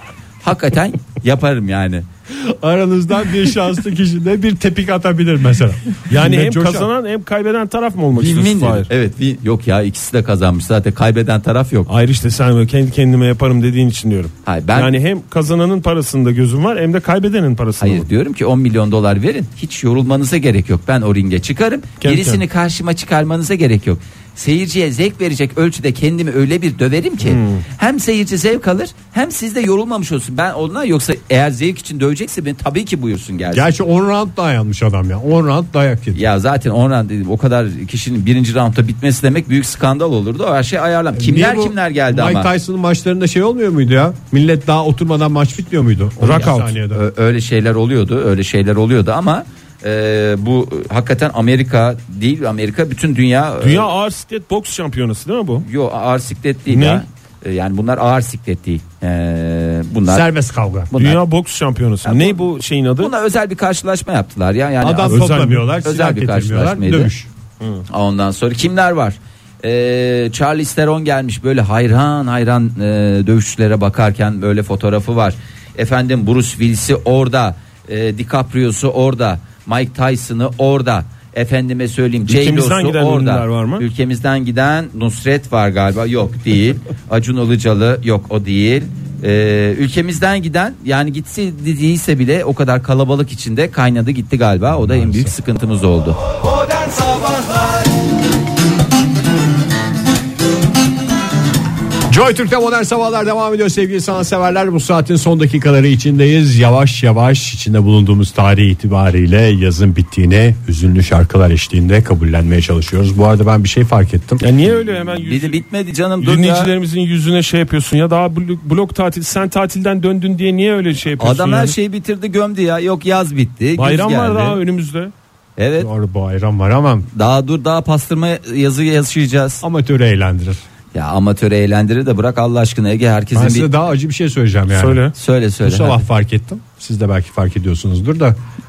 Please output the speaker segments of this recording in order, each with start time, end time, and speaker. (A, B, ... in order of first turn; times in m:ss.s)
0:00.4-0:02.1 A
0:02.3-0:06.9 B
0:06.1-0:08.9 C
0:08.1-0:11.9 A
0:11.9-0:18.1 C
0:14.4-0:14.9 A
0:17.8-0:33.7 A
0:22.0-0:22.4 C
0:27.2-0:27.6 C
0:33.5-0:36.2 B
0:36.2-0:42.5 A
0:41.1-0:47.0 B
0:46.2-0:46.8 C
0:46.9-0:53.9 A
0:53.6-0:55.7 C
0:55.6-1:00.3 A
0:56.7-0:57.0 C
1:00.1-1:00.9 B
1:00.9-1:01.2 A
1:01.0-1:03.1 C
1:02.0-1:02.5 A
1:03.0-1:05.3 A
1:04.8-1:07.3 B
1:05.1-1:05.7 C
1:05.8-1:07.1 A
1:07.9-1:36.4 A
1:22.3-1:23.8 C
1:34.7-1:35.3 B
1:42.1-1:54.4 B
1:54.4-1:55.6 C
1:55.0-1:56.7 A
1:56.2-2:01.8 C
2:01.2-2:04.6 A
2:03.8-2:05.1 C
2:05.6-2:05.9 A
2:05.8-2:07.1 B
2:07.1-2:09.6 A
2:09.6-2:10.6 B
2:10.9-2:13.7 A
2:13.3-2:15.1 B
2:14.7-2:15.2 C
2:15.2-2:16.0 A
2:15.6-2:18.4 B